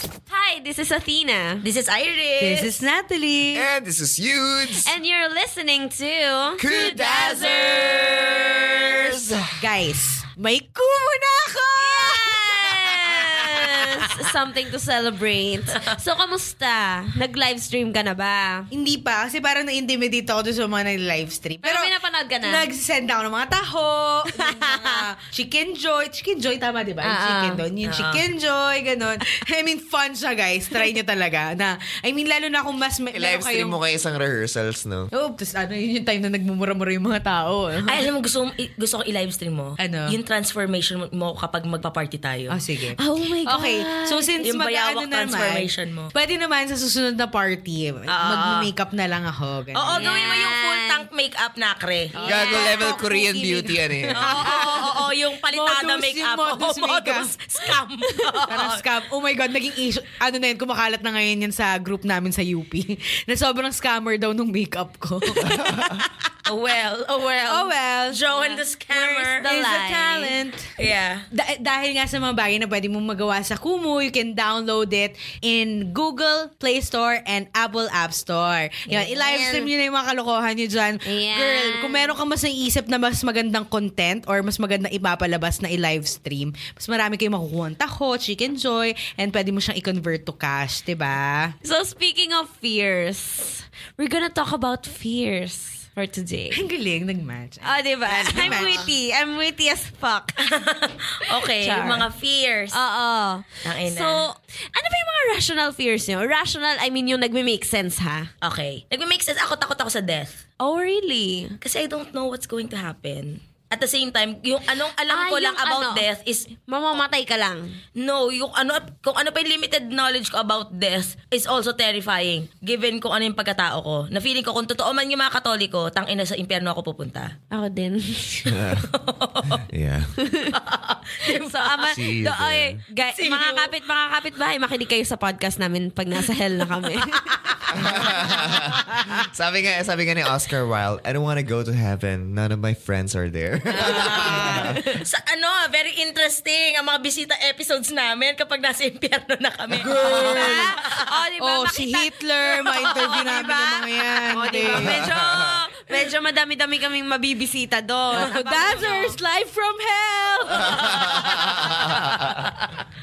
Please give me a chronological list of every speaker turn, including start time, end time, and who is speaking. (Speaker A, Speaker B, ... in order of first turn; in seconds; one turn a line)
Speaker A: 0.3-1.6
Speaker B: 1.6-2.8
Speaker C: 2.4-3.6
Speaker D: 3.5-4.9
Speaker A: 4.8-7.1
Speaker D: 6.6-9.4
Speaker B: 6.7-8.8
Speaker C: 9.6-12.6
Speaker A: 11.8-18.7
Speaker C: 18.7-33.7
Speaker A: 21.6-22.6
Speaker A: 24.3-25.0
Speaker A: 27.0-27.6
Speaker B: 27.8-28.2
Speaker D: 33.1-35.1
Speaker C: 35.1-38.0
Speaker B: 37.9-42.6
Speaker C: 39.8-40.1
Speaker C: 42.5-50.0
Speaker A: 43.0-44.3
Speaker B: 44.4-46.1
Speaker B: 48.1-48.7
Speaker B: 49.7-52.1
Speaker A: 49.9-51.0
Speaker A: 52.1-53.7
Speaker C: 52.1-53.0
Speaker D: 52.2-54.3
Speaker C: 54.1-57.3
Speaker B: 54.2-58.8
Speaker C: 58.5-66.3
Speaker D: 65.5-66.0
Speaker B: 66.5-69.5
Speaker C: 67.5-70.7
Speaker A: 69.3-70.3
Speaker B: 70.8-71.2
Speaker C: 71.3-91.5
Speaker B: 78.9-79.7
Speaker A: 81.0-82.2
Speaker A: 91.6-96.6
Speaker C: 96.5-98.9
Speaker A: 97.6-100.4
Speaker B: 98.3-98.7
Speaker B: 100.4-102.8
Speaker A: 101.2-102.1
Speaker A: 102.7-108.3
Speaker B: 103.6-104.2
Speaker B: 108.4-110.4
Speaker A: 110.6-111.5
Speaker B: 111.6-116.5
Speaker A: 115.1-116.0
Speaker A: 116.6-117.8
Speaker B: 118.0-127.3
Speaker A: 127.5-128.6
Speaker D: 128.5-128.9
Speaker B: 128.8-129.7
Speaker D: 129.5-130.1
Speaker A: 130.2-130.5
Speaker B: 130.5-131.9
Speaker A: 131.2-137.6
Speaker D: 131.8-132.8
Speaker B: 133.1-133.7
Speaker B: 136.9-138.2
Speaker D: 137.7-144.8
Speaker B: 143.8-151.1
Speaker C: 144.1-144.5
Speaker A: 144.2-144.8
Speaker C: 149.7-150.7
Speaker A: 150.0-159.1
Speaker C: 151.4-155.0
Speaker D: 154.7-155.6
Speaker C: 158.1-161.6
Speaker B: 158.6-158.9
Speaker B: 160.7-161.4
Speaker D: 160.7-162.4
Speaker B: 162.3-162.7